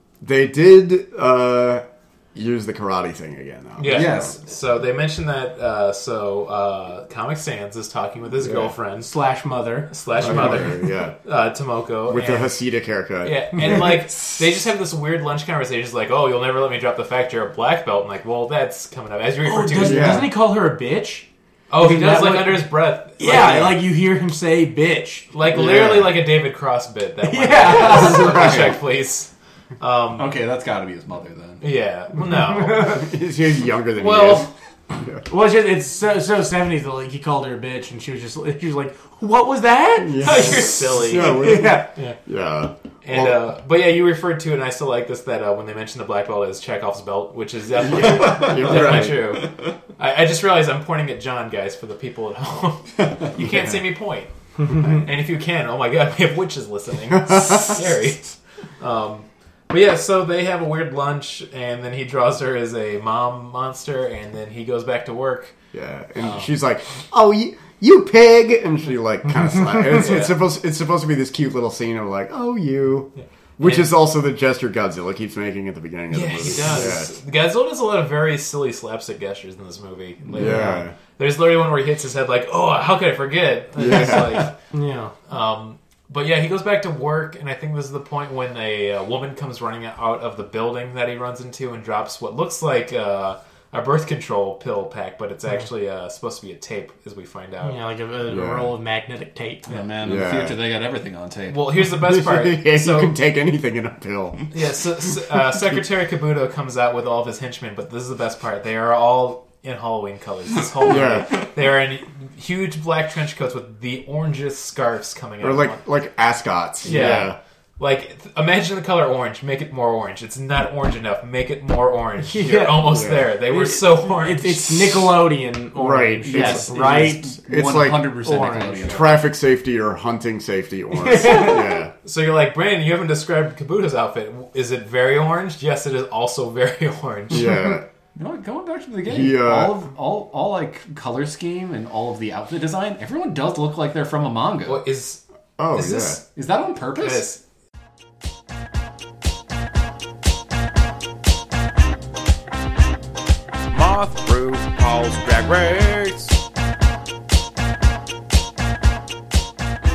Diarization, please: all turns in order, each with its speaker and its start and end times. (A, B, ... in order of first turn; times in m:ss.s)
0:00.2-0:04.3 A
0:03.8-0:09.2 B
0:03.8-0:04.4 C
0:08.4-0:08.7 A
0:09.0-0:10.3 D
0:09.9-0:12.6 B
0:10.2-0:11.2 A
0:12.1-0:14.0 A
0:13.2-0:20.3 B
0:19.4-0:21.3 D
0:19.8-0:20.3 A
0:21.7-0:23.7 B
0:21.8-0:25.2 D
0:23.3-0:23.7 A
0:25.3-0:30.3 B
0:25.5-0:26.1 A
0:27.2-0:28.3 D
0:27.7-0:28.7 C
0:28.2-0:28.7 A
0:30.2-0:31.6 C
0:31.6-0:33.1 B
0:32.6-0:35.2 A
0:34.0-0:34.5 B
0:35.3-0:41.8 D
0:40.0-0:43.5 A
0:40.2-0:42.2 B
0:43.0-1:05.5 B
0:47.9-0:49.3 A
0:48.1-0:48.8 C
0:53.4-0:53.8 A
0:57.3-0:57.7 A
1:05.7-1:17.1 A
1:06.2-1:06.5 B
1:09.9-1:10.3 B
1:13.6-1:13.9 B
1:16.1-1:24.6 B
1:20.3-1:20.9 A
1:23.8-1:24.5 A
1:24.7-1:25.1 D
1:25.3-1:37.8 B
1:37.6-1:39.7 D
1:38.3-1:38.7 A
1:39.6-1:41.6 C
1:40.0-1:40.6 A
1:41.5-1:43.2 B
1:41.8-1:44.5 A
1:44.5-1:55.8 B
1:50.8-1:51.4 A
1:55.4-1:57.4 A
1:56.8-2:04.9 B
2:02.2-2:07.4 D
2:02.8-2:03.3 A
2:05.7-2:06.8 A
2:06.3-2:09.2 C
2:07.4-2:08.2 A
2:08.2-2:08.9 D
2:08.9-2:11.9 A
2:11.1-2:11.5 D
2:12.0-2:17.5 B
2:17.3-2:17.8 A
2:18.1-2:24.8 C
2:19.0-2:19.8 A
2:24.6-2:26.3 B
2:25.6-2:26.2 A
2:26.3-2:27.3 C
2:26.9-2:27.4 B
2:33.7-2:36.3 E